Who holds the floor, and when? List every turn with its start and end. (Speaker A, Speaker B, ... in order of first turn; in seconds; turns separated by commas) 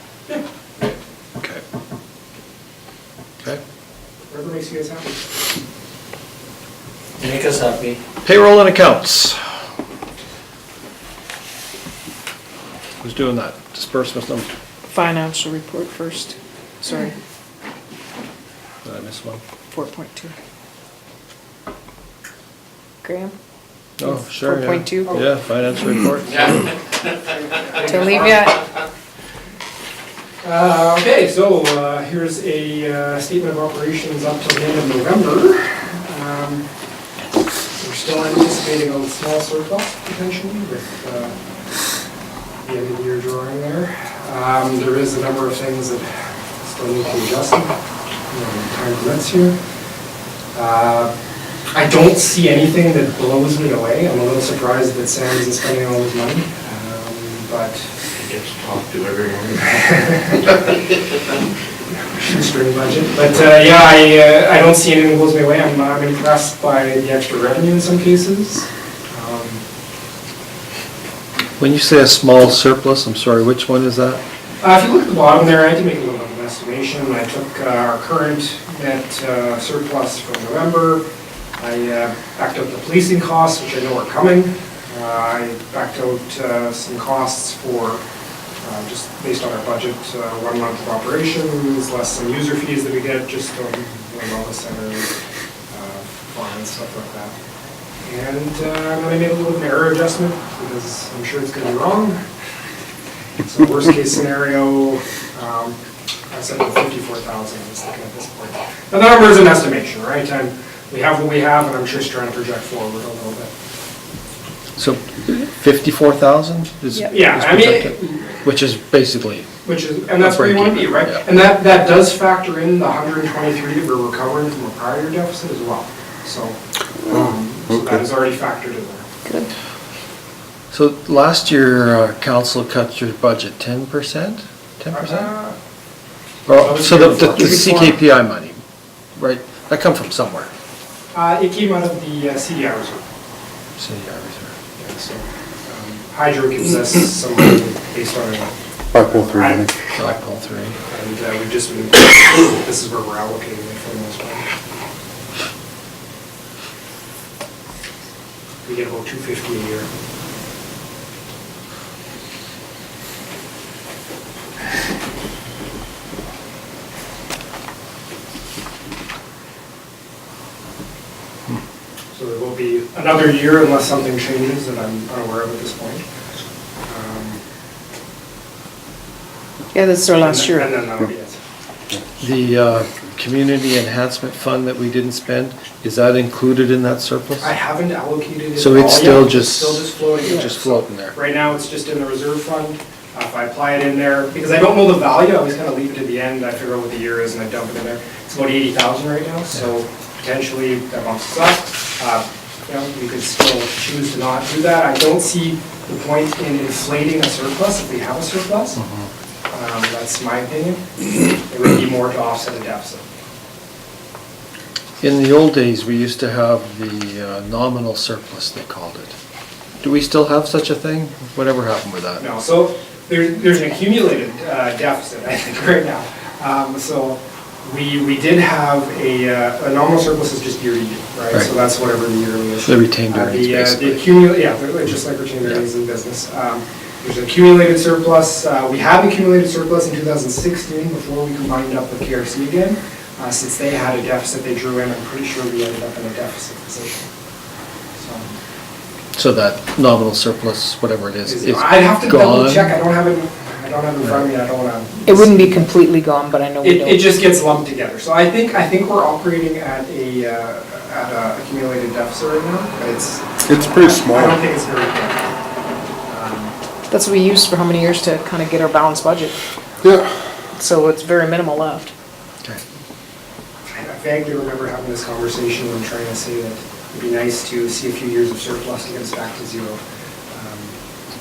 Speaker A: 4.3-5.2, Speaker B: 7.2-8.0, Speaker C: 8.2-9.4, Speaker C: 13.0-14.5, Speaker D: 14.9-17.1, Speaker C: 18.8-19.4, Speaker D: 19.7-20.3, Speaker D: 23.0-23.3, Speaker C: 24.0-26.6, Speaker D: 24.0-25.2, Speaker A: 25.1-25.3, Speaker A: 25.9-26.6, Speaker A: 27.4-28.5, Speaker D: 27.8-28.6, Speaker A: 30.4-36.6, Speaker A: 37.8-41.3, Speaker A: 42.6-46.1, Speaker A: 46.6-47.7, Speaker A: 48.3-49.5, Speaker A: 50.5-51.1, Speaker A: 51.7-57.9, Speaker B: 58.1-59.9, Speaker A: 59.7-60.6, Speaker A: 61.9-69.6, Speaker C: 71.6-74.2, Speaker A: 74.6-81.0, Speaker A: 81.6-88.0, Speaker A: 88.6-95.1, Speaker A: 95.7-97.3, Speaker A: 98.0-102.2, Speaker A: 103.4-105.8, Speaker A: 106.3-113.5, Speaker C: 114.8-119.5, Speaker A: 117.1-118.4, Speaker A: 119.6-129.0, Speaker C: 120.2-121.2, Speaker D: 129.2-129.5, Speaker C: 130.7-135.3, Speaker A: 134.9-135.6, Speaker A: 136.5-138.0, Speaker C: 136.5-138.6, Speaker C: 139.2-140.5, Speaker A: 141.1-143.0, Speaker C: 143.8-144.5, Speaker A: 144.8-154.5, Speaker E: 148.9-149.7, Speaker C: 149.9-150.8, Speaker A: 158.6-159.9, Speaker A: 172.1-176.0, Speaker A: 176.8-177.4, Speaker D: 179.7-180.7, Speaker A: 180.2-181.4, Speaker C: 182.2-187.5, Speaker A: 187.4-208.8, Speaker C: 188.6-191.1, Speaker C: 208.8-209.1, Speaker A: 209.5-213.0, Speaker C: 215.0-219.2, Speaker C: 219.8-222.2, Speaker A: 222.2-247.1, Speaker C: 232.6-234.1, Speaker A: 248.0-248.3, Speaker C: 249.1-252.8, Speaker A: 251.2-255.7, Speaker D: 255.1-257.1, Speaker A: 256.6-265.3, Speaker E: 263.4-264.4, Speaker A: 266.1-266.5, Speaker D: 266.9-269.4, Speaker E: 269.8-270.1, Speaker D: 270.5-271.9, Speaker A: 273.7-280.7